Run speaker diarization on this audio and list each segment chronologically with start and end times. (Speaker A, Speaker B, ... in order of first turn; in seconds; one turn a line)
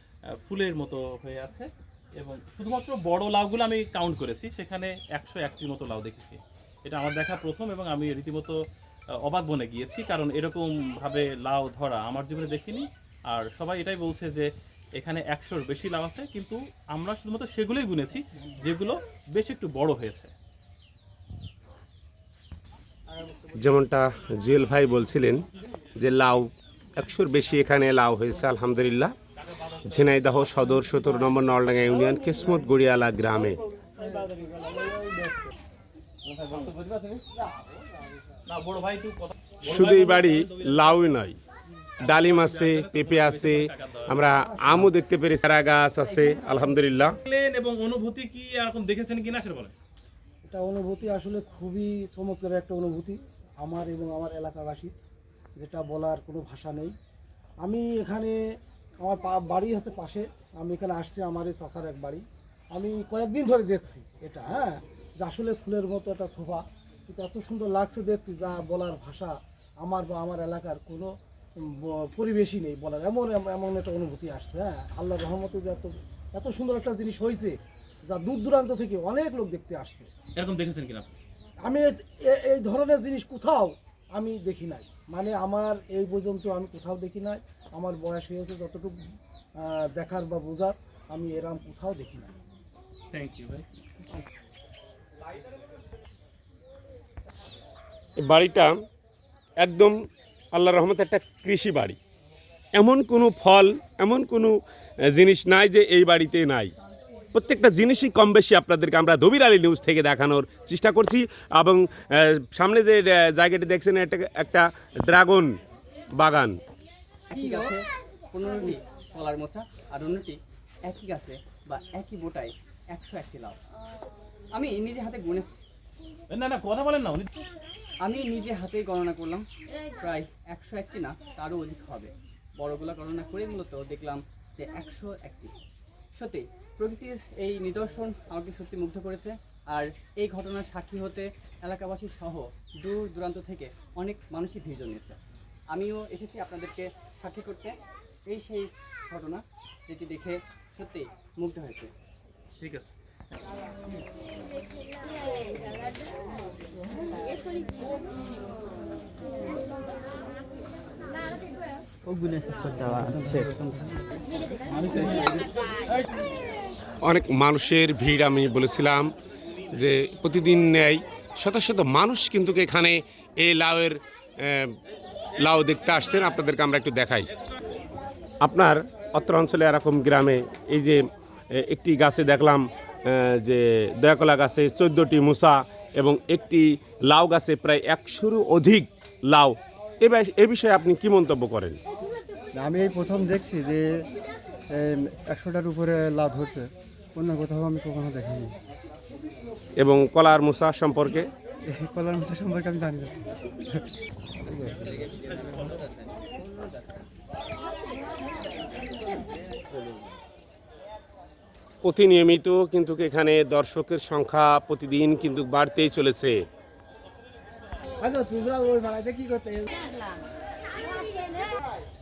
Speaker A: 0.3-8.6
Speaker A: 9.2-20.3
Speaker B: 23.6-29.1
Speaker B: 29.8-33.6
Speaker C: 34.6-35.0
Speaker A: 36.5-36.9
Speaker A: 38.5-41.0
Speaker B: 39.6-41.4
Speaker A: 42.0-44.3
Speaker B: 42.0-47.1
Speaker C: 44.3-44.8
Speaker A: 47.2-49.8
Speaker C: 50.5-54.9
Speaker C: 55.6-57.0
Speaker C: 57.6-58.4
Speaker C: 59.0-80.1
Speaker A: 80.4-81.1
Speaker C: 81.6-89.0
Speaker C: 89.6-92.3
Speaker A: 93.1-93.8
Speaker B: 98.2-98.8
Speaker B: 99.6-99.9
Speaker B: 100.5-102.0
Speaker B: 102.7-106.7
Speaker B: 107.3-115.6
Speaker B: 116.2-116.6
Speaker D: 117.3-123.6
Speaker D: 124.5-125.5
Speaker A: 126.3-127.3
Speaker D: 128.0-129.5
Speaker D: 130.0-135.5
Speaker D: 136.2-145.2
Speaker D: 145.7-147.7
Speaker D: 148.3-151.9
Speaker A: 152.6-152.9
Speaker E: 162.1-163.9
Speaker B: 167.1-169.1
Speaker B: 169.8-174.8
Speaker B: 175.4-177.3
Speaker B: 178.4-191.8
Speaker E: 192.6-194.1
Speaker E: 194.7-198.6
Speaker B: 199.8-201.3
Speaker E: 201.7-203.2
Speaker E: 204.5-204.9
Speaker A: 205.1-205.7
Speaker B: 211.8-216.4
Speaker C: 218.0-219.8